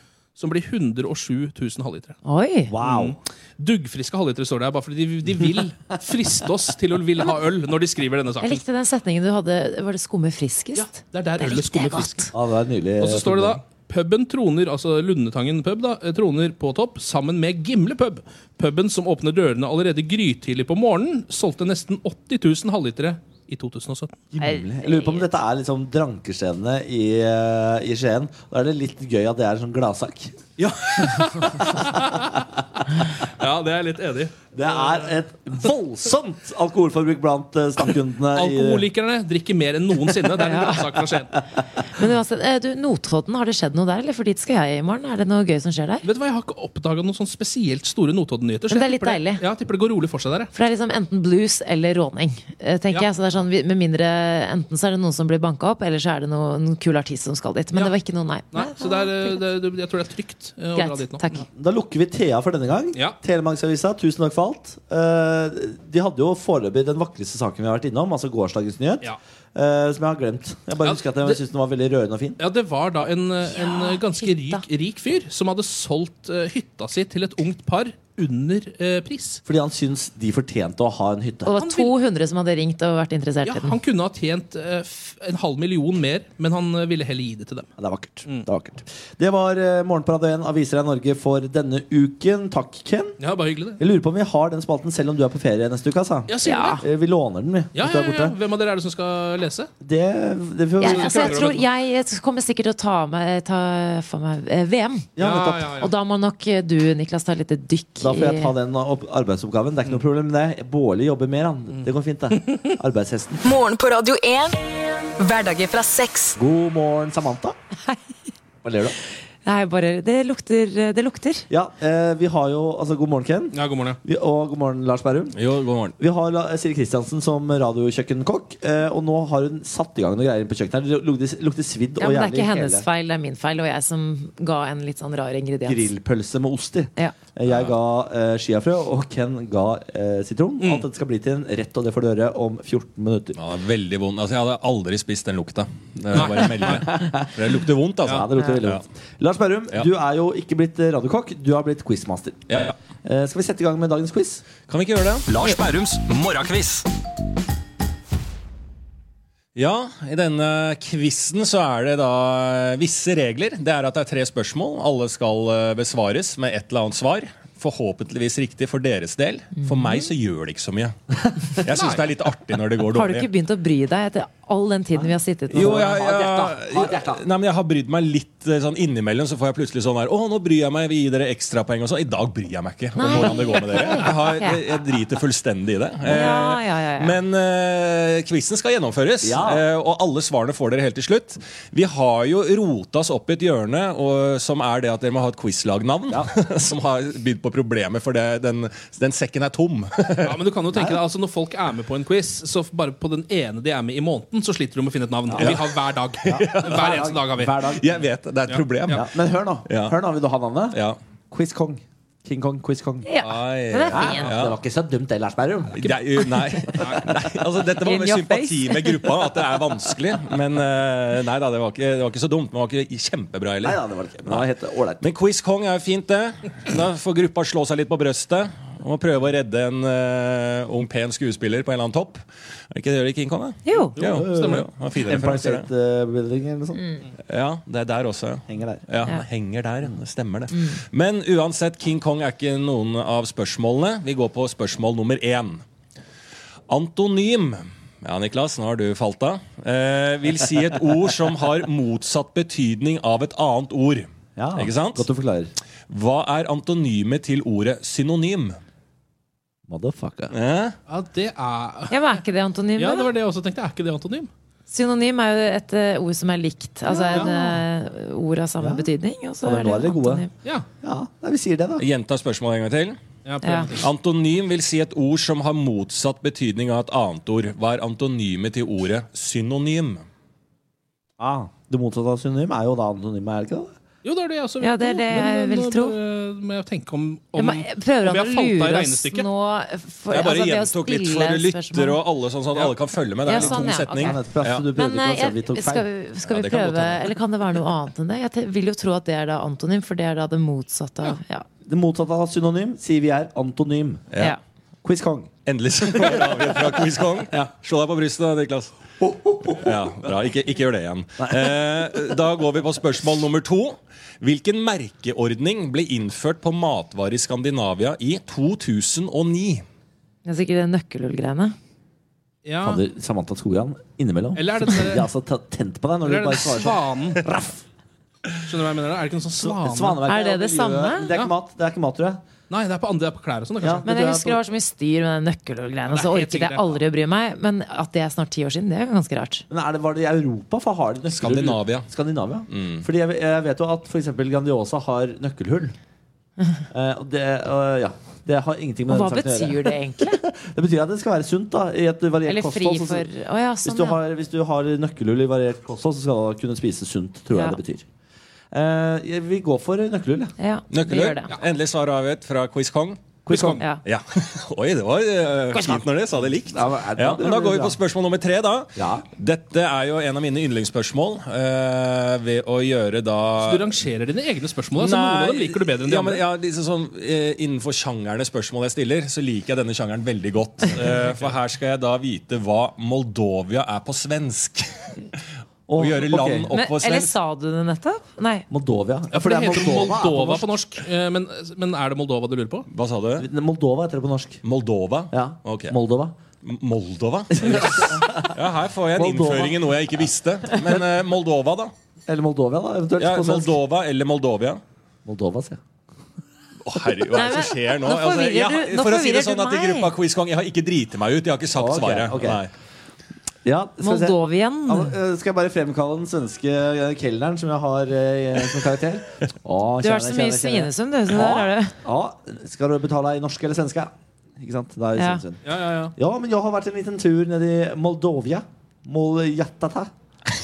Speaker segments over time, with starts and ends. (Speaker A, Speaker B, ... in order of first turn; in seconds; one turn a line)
Speaker A: 0.4-2.2
Speaker B: 2.2-2.7
Speaker C: 2.7-3.2
Speaker A: 2.8-8.6
Speaker B: 8.4-12.3
Speaker A: 10.8-12.3
Speaker C: 12.3-13.6
Speaker A: 13.0-24.1
Speaker C: 24.3-30.4
Speaker B: 24.4-25.3
Speaker A: 30.6-35.1
Speaker C: 31.1-32.4
Speaker C: 34.5-38.9
Speaker A: 38.3-41.4
Speaker B: 40.4-40.8
Speaker B: 41.9-46.1
Speaker A: 46.0-50.5
Speaker B: 48.7-49.4
Speaker B: 50.5-59.4
Speaker A: 58.5-61.2
Speaker B: 60.8-61.5
Speaker C: 61.5-72.4
Speaker A: 70.8-71.4
Speaker A: 72.4-79.4
Speaker B: 73.5-74.6
Speaker C: 79.5-81.5
Speaker B: 81.5-83.8
Speaker A: 81.6-81.9
Speaker A: 83.5-87.7
Speaker C: 87.8-93.2
Speaker A: 93.2-93.8
Speaker C: 93.8-98.4
Speaker A: 96.3-96.8
Speaker B: 96.4-96.8
Speaker A: 97.7-99.7
Speaker C: 99.8-101.4
Speaker B: 100.8-105.1
Speaker A: 100.8-101.7
Speaker C: 105.2-105.8
Speaker A: 105.2-105.9
Speaker B: 105.8-108.5
Speaker C: 108.0-113.5
Speaker D: 113.4-114.6
Speaker D: 115.2-116.4
Speaker C: 116.4-117.6
Speaker C: 118.6-119.0
Speaker B: 119.4-121.5
Speaker C: 121.5-125.4
Speaker A: 123.5-124.0
Speaker E: 125.3-126.0
Speaker C: 126.0-132.9
Speaker B: 132.0-135.9
Speaker C: 135.7-143.4
Speaker E: 137.5-137.7
Speaker A: 140.6-140.9
Speaker E: 143.3-148.8
Speaker A: 146.1-146.8
Speaker C: 146.4-147.3
Speaker C: 148.1-154.5
Speaker E: 152.5-152.8
Speaker E: 154.6-156.9
Speaker E: 159.6-170.9
Speaker B: 169.6-170.1
Speaker E: 171.5-173.3
Speaker A: 171.7-172.1
Speaker B: 172.9-175.9
Speaker C: 175.0-177.2
Speaker E: 175.5-200.4
Speaker B: 183.0-184.6
Speaker B: 186.1-187.2
Speaker C: 189.2-189.6
Speaker A: 200.2-207.6
Speaker C: 200.7-201.0
Speaker C: 205.3-205.6
Speaker E: 205.3-206.9
Speaker C: 206.3-207.8
Speaker E: 207.8-209.1
Speaker A: 208.5-209.0
Speaker C: 208.9-210.8
Speaker E: 209.7-210.0
Speaker E: 210.7-211.0
Speaker C: 211.3-213.1
Speaker B: 213.0-214.3
Speaker E: 213.2-214.6
Speaker C: 213.9-215.9
Speaker E: 215.7-224.5
Speaker A: 216.8-217.1
Speaker B: 217.8-219.1
Speaker C: 223.6-225.1
Speaker E: 225.0-235.7
Speaker B: 233.6-234.0
Speaker A: 233.9-234.7
Speaker C: 234.0-236.8
Speaker E: 237.3-245.6
Speaker C: 238.5-238.8
Speaker E: 246.7-255.1
Speaker C: 254.4-255.5
Speaker E: 255.9-258.6
Speaker C: 259.7-260.3
Speaker E: 260.3-260.8
Speaker A: 260.9-262.2
Speaker B: 261.9-263.1
Speaker A: 262.8-264.3
Speaker B: 264.7-270.3
Speaker C: 267.1-267.5
Speaker C: 268.6-268.9
Speaker C: 269.4-270.3
Speaker C: 270.8-271.9
Speaker E: 271.8-273.0
Speaker A: 273.2-273.9
Speaker B: 273.4-273.7
Speaker E: 273.8-280.1
Speaker C: 281.2-283.8
Speaker A: 284.0-289.3
Speaker B: 284.6-285.9
Speaker B: 287.4-292.0
Speaker E: 290.1-294.7
Speaker B: 293.3-294.2
Speaker C: 293.4-295.9
Speaker B: 294.7-301.5
Speaker E: 296.2-297.1
Speaker C: 301.7-304.1
Speaker E: 304.1-304.4
Speaker C: 304.8-305.3
Speaker E: 305.4-308.7
Speaker C: 305.9-306.5
Speaker C: 309.0-310.1
Speaker E: 309.5-319.6
Speaker C: 311.2-312.0
Speaker B: 320.2-321.6
Speaker A: 322.4-322.8
Speaker C: 322.6-327.6
Speaker A: 324.4-325.1
Speaker A: 326.0-327.2
Speaker A: 328.4-330.0
Speaker C: 329.4-332.2
Speaker B: 330.1-331.1
Speaker A: 332.5-333.9
Speaker C: 333.6-334.4
Speaker B: 333.9-339.4
Speaker A: 335.9-336.8
Speaker C: 339.5-345.8
Speaker E: 341.1-341.9
Speaker E: 342.5-342.9
Speaker C: 346.7-353.1
Speaker B: 348.9-350.2
Speaker B: 352.3-354.0
Speaker C: 353.6-357.9
Speaker B: 357.3-357.6
Speaker C: 358.5-360.3
Speaker B: 360.4-361.3
Speaker E: 360.7-363.2
Speaker C: 363.2-363.6
Speaker A: 363.3-363.6
Speaker E: 363.8-373.7
Speaker B: 365.5-365.8
Speaker C: 366.3-367.8
Speaker C: 368.8-369.1
Speaker A: 373.4-376.2
Speaker E: 374.8-384.9
Speaker A: 380.8-381.4
Speaker C: 385.7-386.5
Speaker E: 385.8-387.1
Speaker B: 386.5-388.5
Speaker C: 388.5-390.5
Speaker A: 389.1-392.7
Speaker E: 392.7-393.3
Speaker C: 393.2-394.4
Speaker E: 394.4-395.8
Speaker C: 395.1-396.2
Speaker E: 396.4-401.7
Speaker C: 397.3-398.4
Speaker C: 398.9-399.9
Speaker C: 402.1-403.6
Speaker E: 403.0-404.6
Speaker C: 405.1-405.6
Speaker E: 406.6-412.5
Speaker B: 407.1-409.9
Speaker C: 411.5-412.4
Speaker C: 413.4-425.4
Speaker B: 413.8-414.9
Speaker B: 419.8-421.8
Speaker B: 425.0-425.2
Speaker A: 425.4-425.9
Speaker C: 425.9-429.9